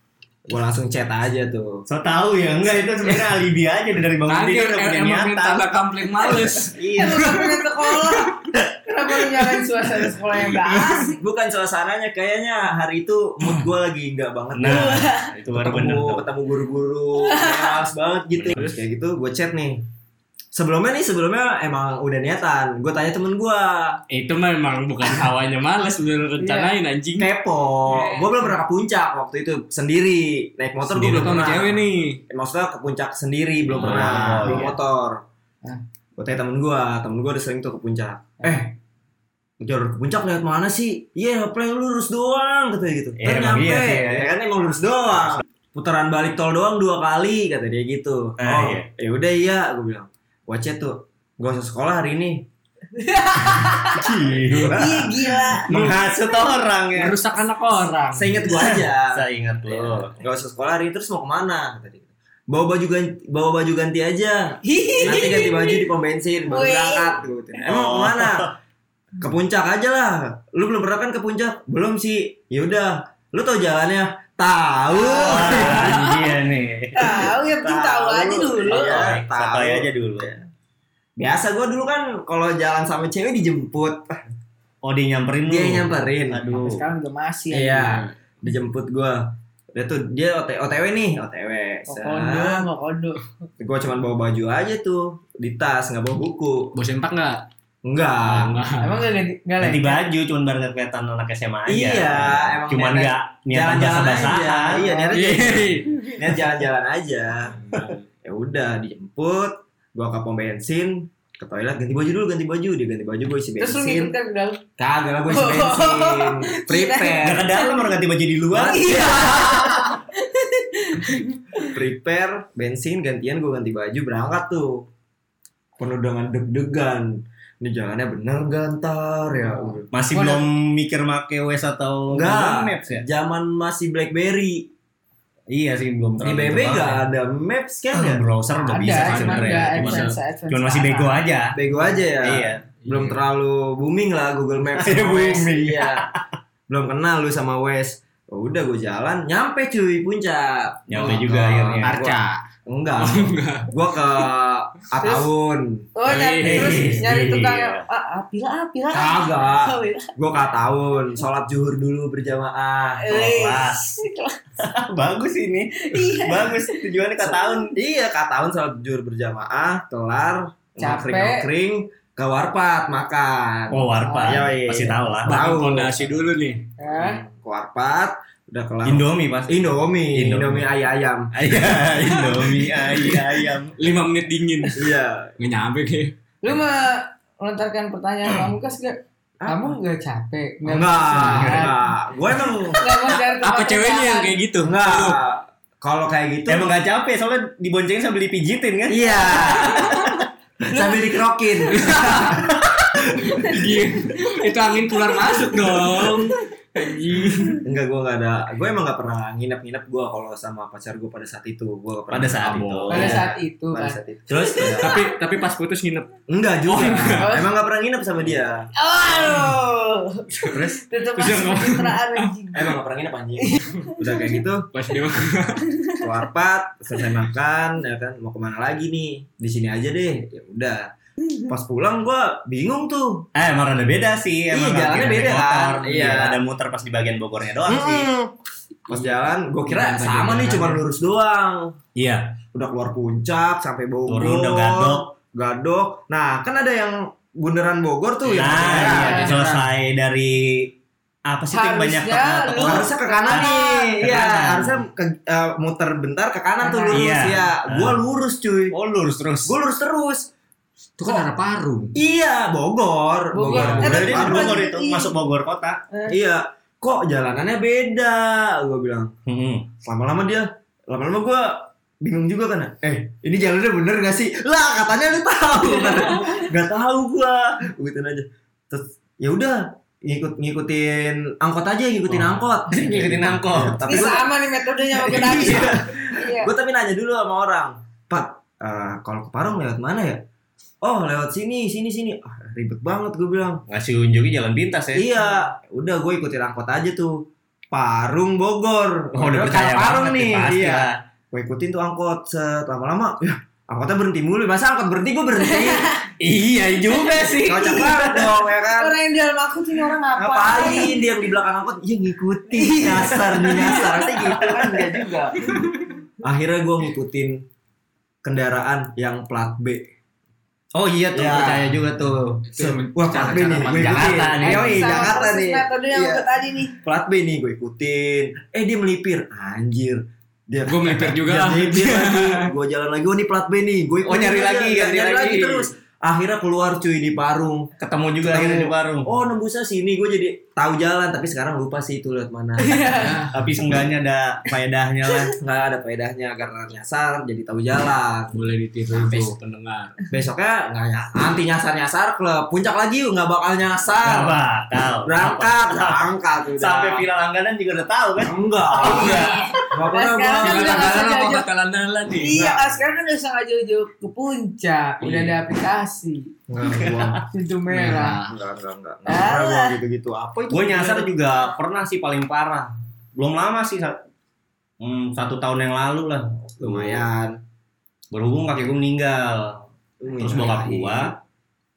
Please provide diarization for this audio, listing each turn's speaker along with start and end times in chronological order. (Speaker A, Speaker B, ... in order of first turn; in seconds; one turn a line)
Speaker A: 0.5-1.8
Speaker B: 1.9-5.7
Speaker A: 3.0-3.4
Speaker C: 4.3-7.5
Speaker B: 6.6-7.5
Speaker D: 7.0-11.2
Speaker A: 11.2-19.8
Speaker B: 14.5-16.2
Speaker D: 14.6-15.3
Speaker D: 17.2-17.8
Speaker B: 18.3-18.6
Speaker C: 18.5-18.8
Speaker A: 20.5-24.0
Speaker C: 24.1-27.3
Speaker D: 26.4-26.7
Speaker A: 27.2-35.2
Speaker D: 27.9-28.5
Speaker C: 30.8-32.2
Speaker C: 33.7-34.7
Speaker B: 33.7-34.7
Speaker A: 36.2-38.8
Speaker D: 38.4-38.6
Speaker A: 39.6-52.5
Speaker B: 43.2-44.3
Speaker B: 45.1-45.4
Speaker B: 48.4-48.9
Speaker D: 53.0-55.8
Speaker B: 54.0-57.2
Speaker C: 55.7-56.0
Speaker C: 57.0-58.4
Speaker A: 58.1-68.5
Speaker B: 58.5-60.1
Speaker D: 64.6-65.9
Speaker D: 66.5-67.2
Speaker B: 67.6-68.5
Speaker A: 69.2-76.1
Speaker D: 74.9-76.2
Speaker B: 75.1-80.3
Speaker D: 76.9-79.0
Speaker A: 78.0-80.4
Speaker A: 81.2-84.1
Speaker B: 84.8-86.8
Speaker A: 85.5-86.5
Speaker D: 86.5-87.9
Speaker A: 87.5-92.7
Speaker C: 87.8-88.1
Speaker D: 91.9-93.2
Speaker A: 93.6-96.7
Speaker C: 96.7-97.4
Speaker A: 97.8-98.6
Speaker C: 98.2-99.1
Speaker D: 98.8-100.0
Speaker B: 99.6-104.8
Speaker A: 101.7-107.6
Speaker D: 104.7-106.3
Speaker C: 105.1-105.9
Speaker C: 107.5-108.0
Speaker A: 108.2-114.1
Speaker D: 113.6-114.6
Speaker A: 114.8-117.5
Speaker D: 115.3-117.9
Speaker B: 117.2-118.8
Speaker A: 118.5-119.7
Speaker D: 118.7-121.7
Speaker A: 121.7-124.8
Speaker A: 125.8-129.9
Speaker D: 129.4-130.5
Speaker B: 129.9-133.0
Speaker A: 132.1-134.7
Speaker B: 135.5-137.0
Speaker A: 136.2-138.2
Speaker B: 137.9-141.6
Speaker D: 138.6-141.2
Speaker C: 139.0-140.2
Speaker A: 141.5-146.1
Speaker B: 142.2-142.7
Speaker C: 142.8-143.2
Speaker B: 144.8-146.1
Speaker A: 146.7-155.9
Speaker B: 150.9-152.0
Speaker C: 151.8-152.4
Speaker C: 153.0-154.2
Speaker D: 155.0-155.3
Speaker D: 155.9-160.2
Speaker C: 156.0-157.0
Speaker B: 156.4-157.8
Speaker A: 158.9-163.0
Speaker D: 163.0-164.4
Speaker B: 163.1-164.0
Speaker B: 164.6-167.8
Speaker D: 165.8-166.8
Speaker A: 167.2-176.2
Speaker D: 170.8-171.5
Speaker B: 173.7-175.4
Speaker D: 174.0-174.5
Speaker C: 175.2-176.6
Speaker D: 176.8-177.2
Speaker A: 176.9-181.3
Speaker B: 178.8-179.5
Speaker B: 180.1-180.7
Speaker B: 181.3-183.8
Speaker C: 181.5-184.8
Speaker A: 184.8-185.3
Speaker C: 185.4-186.1
Speaker D: 186.4-191.7
Speaker A: 189.4-189.8
Speaker A: 190.6-192.8
Speaker B: 191.2-191.7
Speaker D: 192.7-194.4
Speaker C: 193.1-195.2
Speaker A: 194.6-196.7
Speaker B: 196.5-200.2
Speaker A: 198.9-199.8
Speaker D: 199.2-201.1
Speaker A: 200.6-202.2
Speaker D: 201.7-202.5
Speaker C: 201.7-202.4
Speaker B: 202.3-202.8
Speaker D: 203.1-204.3
Speaker C: 203.4-207.6
Speaker A: 205.7-206.2
Speaker A: 207.6-214.9
Speaker B: 212.1-213.2
Speaker C: 212.4-213.2
Speaker D: 212.9-215.0
Speaker C: 214.4-216.1
Speaker A: 216.3-218.7
Speaker C: 216.6-217.3
Speaker D: 217.2-217.5
Speaker D: 218.7-222.7
Speaker A: 220.4-220.8
Speaker C: 221.2-222.2
Speaker A: 222.5-224.7
Speaker D: 223.8-224.3
Speaker C: 224.7-225.7
Speaker A: 226.0-230.9
Speaker A: 231.4-233.2
Speaker B: 233.3-238.1
Speaker A: 234.5-236.4
Speaker A: 237.7-238.3
Speaker C: 238.9-240.8
Speaker A: 238.9-241.8
Speaker B: 241.9-242.3
Speaker A: 242.5-249.3
Speaker B: 244.1-245.0
Speaker C: 248.3-249.7
Speaker B: 248.3-250.7
Speaker D: 248.9-249.4
Speaker B: 251.2-254.8
Speaker D: 251.5-254.2
Speaker A: 252.6-258.7
Speaker D: 256.6-257.2
Speaker B: 256.9-258.0
Speaker B: 258.7-259.5
Speaker A: 259.4-260.3
Speaker C: 261.0-262.0
Speaker A: 261.9-264.6
Speaker D: 263.3-265.1
Speaker B: 263.5-265.8
Speaker C: 263.5-263.8
Speaker A: 266.1-269.1
Speaker B: 269.2-269.7
Speaker A: 269.8-276.5
Speaker D: 275.8-276.3
Speaker B: 276.3-277.3
Speaker A: 277.3-284.3
Speaker B: 282.1-284.2
Speaker D: 283.8-286.5
Speaker A: 284.9-290.2
Speaker B: 285.1-285.7
Speaker A: 290.8-293.6
Speaker B: 293.7-295.0
Speaker A: 294.9-297.1
Speaker A: 297.7-305.9
Speaker B: 299.1-300.9
Speaker D: 305.4-306.1
Speaker B: 306.2-308.1
Speaker D: 307.2-307.9
Speaker A: 307.4-308.9
Speaker D: 308.7-311.0
Speaker A: 310.1-315.4
Speaker D: 312.5-314.2
Speaker B: 313.6-315.1
Speaker A: 316.2-317.4
Speaker A: 318.2-319.8
Speaker B: 320.7-322.4
Speaker A: 321.1-321.8
Speaker C: 322.4-324.9
Speaker A: 322.6-326.2
Speaker B: 323.6-325.1
Speaker D: 324.4-326.8
Speaker A: 326.8-337.7
Speaker C: 330.6-332.5
Speaker B: 334.0-335.7
Speaker B: 337.8-339.1
Speaker A: 338.2-342.7
Speaker D: 342.6-343.2
Speaker C: 342.9-343.4
Speaker B: 343.3-345.3
Speaker A: 345.4-348.4
Speaker C: 348.3-349.9
Speaker A: 348.9-349.3
Speaker A: 350.1-354.3
Speaker B: 354.0-359.4
Speaker A: 355.0-357.1
Speaker A: 358.2-361.1
Speaker D: 358.8-361.5
Speaker C: 358.8-359.4
Speaker C: 360.4-362.4
Speaker D: 362.1-366.3
Speaker A: 362.3-362.7
Speaker C: 365.0-365.4
Speaker A: 366.5-367.2
Speaker D: 367.3-368.2
Speaker C: 367.7-368.3
Speaker A: 368.2-371.1
Speaker D: 369.1-369.8
Speaker B: 370.5-373.9
Speaker B: 374.8-377.0
Speaker A: 376.6-377.4
Speaker B: 378.1-381.2
Speaker A: 380.0-381.1
Speaker C: 380.4-380.7